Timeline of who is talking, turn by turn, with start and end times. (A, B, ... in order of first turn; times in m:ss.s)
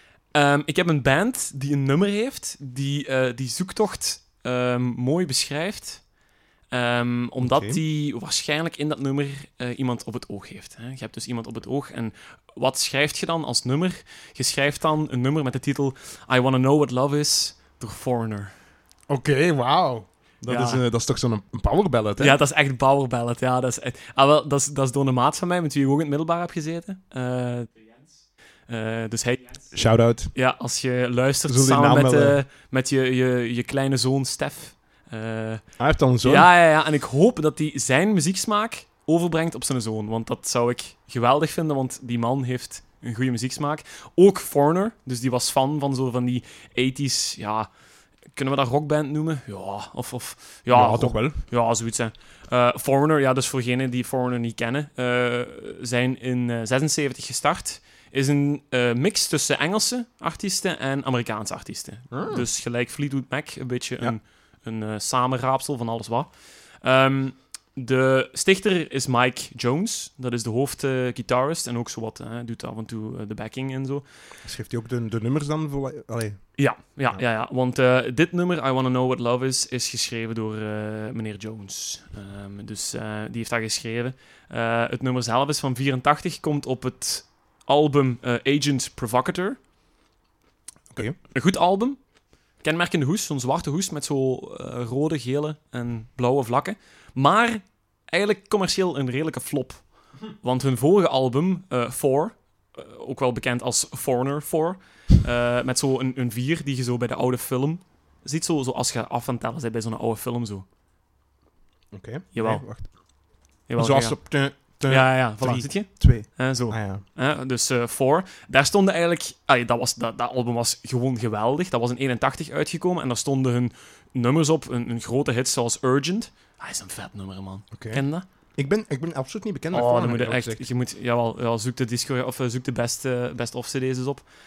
0:00.3-0:06.1 A
0:06.7-0:18.5 A
0:07.4-0:07.8 B
0:19.1-0:22.4 B
0:20.5-0:20.8 A
0:22.2-0:47.7 A
0:29.7-0:30.3 B
0:31.5-0:32.4 B
0:35.8-0:36.5 B
0:48.3-1:14.1 A
0:50.7-0:51.4 B
1:02.1-1:02.5 B
1:14.4-1:17.2 B
1:16.6-1:29.6 A
1:31.3-1:32.0 A
1:32.6-1:50.6 A
1:51.9-1:57.0 B
1:52.3-1:52.7 A
1:53.7-2:08.3 A
2:07.7-2:08.0 B
2:08.6-2:10.7 B
2:09.7-2:14.3 A